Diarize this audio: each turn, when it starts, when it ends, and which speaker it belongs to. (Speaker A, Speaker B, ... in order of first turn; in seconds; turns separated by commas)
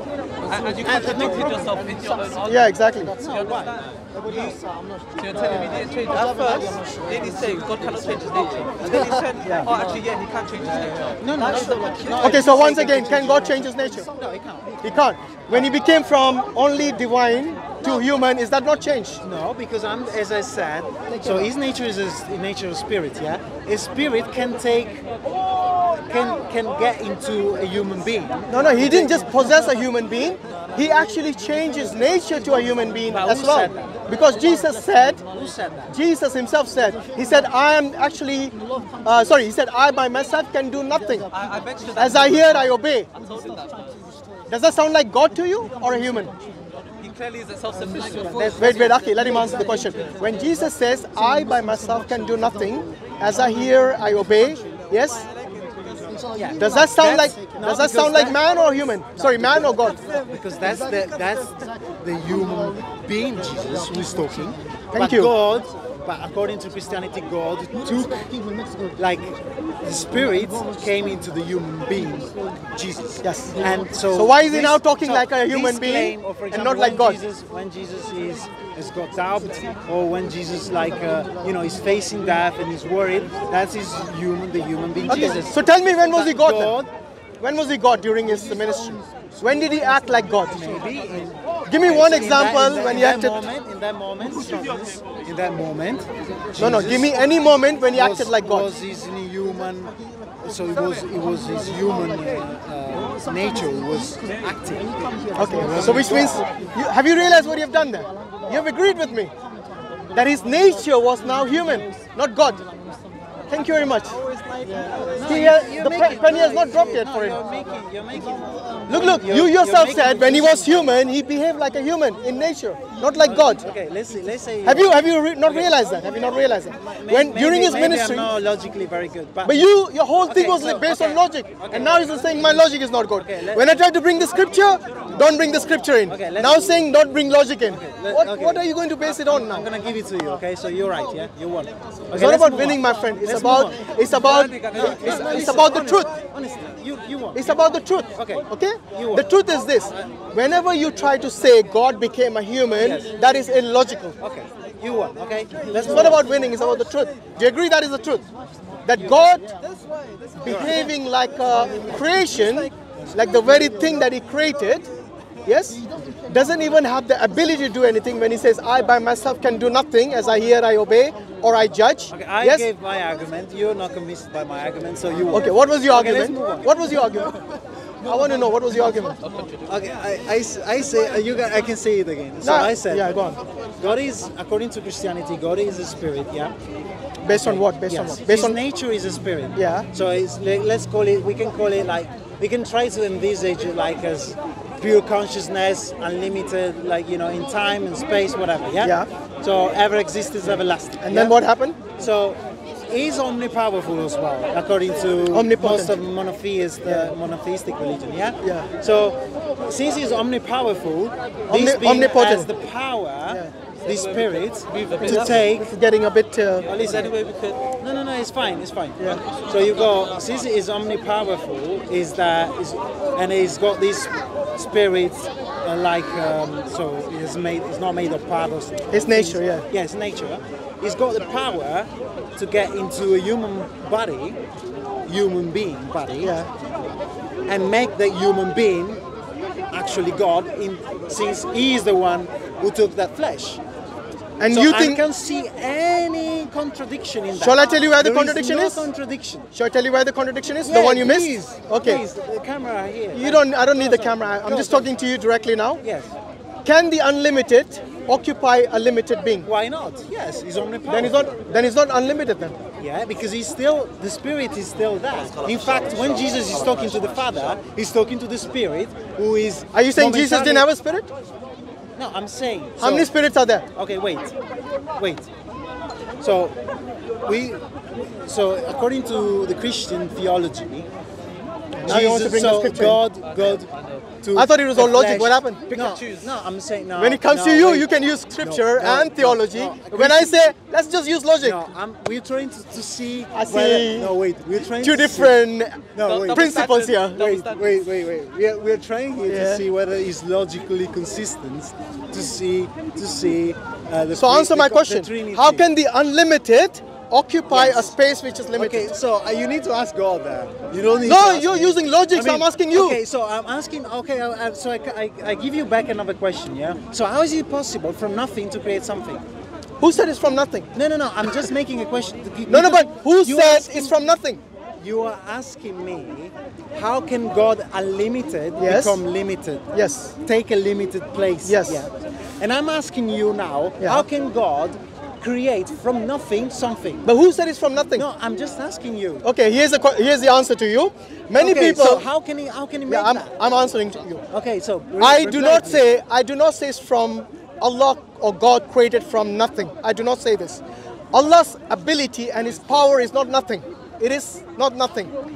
Speaker A: 0.4-12.5, Speaker B: 0.7-1.5, Speaker C: 2.4-3.1, Speaker B: 3.2-5.9, Speaker B: 8.8-9.2, Speaker C: 9.4-9.7, Speaker B: 11.2-15.0, Speaker C: 12.2-14.1, Speaker C: 14.8-19.2, Speaker B: 19.2-25.0, Speaker C: 21.1-21.4, Speaker B: 25.9-29.7, Speaker C: 28.5-35.2, Speaker B: 33.0-34.0, Speaker B: 35.2-36.0, Speaker C: 35.9-41.2, Speaker A: 41.3-43.9, Speaker C: 42.0-43.1, Speaker C: 44.5-46.3, Speaker A: 47.0-50.1, Speaker B: 48.0-49.6, Speaker C: 48.6-55.2, Speaker B: 56.3-58.4, Speaker C: 56.5-60.0, Speaker B: 59.1-68.3, Speaker C: 64.9-65.3, Speaker B: 68.9-86.9, Speaker C: 73.2-77.2, Speaker C: 85.1-86.8, Speaker C: 87.4-90.6, Speaker B: 90.4-97.2, Speaker C: 91.7-93.4, Speaker C: 96.5-98.7, Speaker B: 97.9-106.5, Speaker C: 105.3-109.3, Speaker C: 110.1-112.6, Speaker C: 113.5-114.1, Speaker B: 114.0-121.0, Speaker C: 115.2-117.4, Speaker C: 118.9-123.6, Speaker B: 123.2-126.0, Speaker C: 124.6-128.3, Speaker B: 126.7-129.6, Speaker C: 129.4-139.7, Speaker B: 130.3-133.7, Speaker B: 136.1-136.8, Speaker B: 137.7-149.3, Speaker C: 142.1-146.1, Speaker A: 144.2-145.6, Speaker C: 147.3-154.2, Speaker B: 152.8-153.1, Speaker B: 154.2-156.3, Speaker C: 155.7-158.2, Speaker C: 158.8-159.5, Speaker B: 160.4-160.9, Speaker C: 160.4-164.9, Speaker B: 162.2-163.8, Speaker C: 165.4-172.7, Speaker B: 172.1-176.8, Speaker C: 175.3-177.4, Speaker C: 178.0-179.2, Speaker B: 179.7-183.2, Speaker C: 182.4-183.4, Speaker B: 183.8-186.5, Speaker C: 187.2-188.6, Speaker B: 187.3-215.7, Speaker C: 189.5-189.9, Speaker C: 198.8-199.1, Speaker C: 201.0-201.8, Speaker C: 205.3-205.9, Speaker C: 206.8-207.1, Speaker C: 208.4-208.7, Speaker C: 211.5-212.5, Speaker A: 214.7-215.0, Speaker C: 215.0-216.7, Speaker B: 216.7-234.4, Speaker A: 216.8-217.7, Speaker C: 219.0-219.2, Speaker C: 228.9-229.6, Speaker B: 235.1-236.3, Speaker C: 236.2-236.5, Speaker B: 237.5-239.0, Speaker B: 239.7-243.6, Speaker C: 244.4-245.0, Speaker B: 244.4-249.5, Speaker C: 247.3-248.9, Speaker C: 249.5-252.0, Speaker B: 250.6-254.9, Speaker C: 253.1-255.8, Speaker B: 255.8-256.1, Speaker C: 256.6-259.5, Speaker B: 259.4-261.3, Speaker C: 260.9-262.6, Speaker B: 262.8-270.7, Speaker C: 269.7-271.1, Speaker B: 271.9-273.1, Speaker C: 272.8-273.6, Speaker B: 273.7-274.3, Speaker B: 274.9-275.3, Speaker B: 276.2-276.6, Speaker B: 277.2-280.9, Speaker C: 281.8-283.0, Speaker B: 281.8-283.7, Speaker B: 284.2-290.4, Speaker C: 284.3-285.6, Speaker A: 285.7-286.3, Speaker C: 287.0-291.6, Speaker B: 291.4-295.4, Speaker C: 293.3-294.1, Speaker C: 294.8-297.4, Speaker B: 295.9-296.7, Speaker A: 296.0-297.8, Speaker B: 297.4-305.7, Speaker C: 299.3-299.6, Speaker C: 304.1-308.9, Speaker B: 307.5-308.0, Speaker B: 308.5-319.3, Speaker C: 311.0-313.0, Speaker C: 319.8-320.7, Speaker B: 320.7-323.9, Speaker C: 322.5-324.4, Speaker B: 324.8-329.7, Speaker C: 328.6-329.0, Speaker C: 329.7-330.1, Speaker B: 330.2-337.1, Speaker C: 331.4-331.9, Speaker C: 337.0-338.0, Speaker B: 337.9-339.2, Speaker C: 339.2-342.0, Speaker B: 341.3-343.3, Speaker C: 342.9-344.2, Speaker B: 344.3-345.9, Speaker C: 345.0-355.1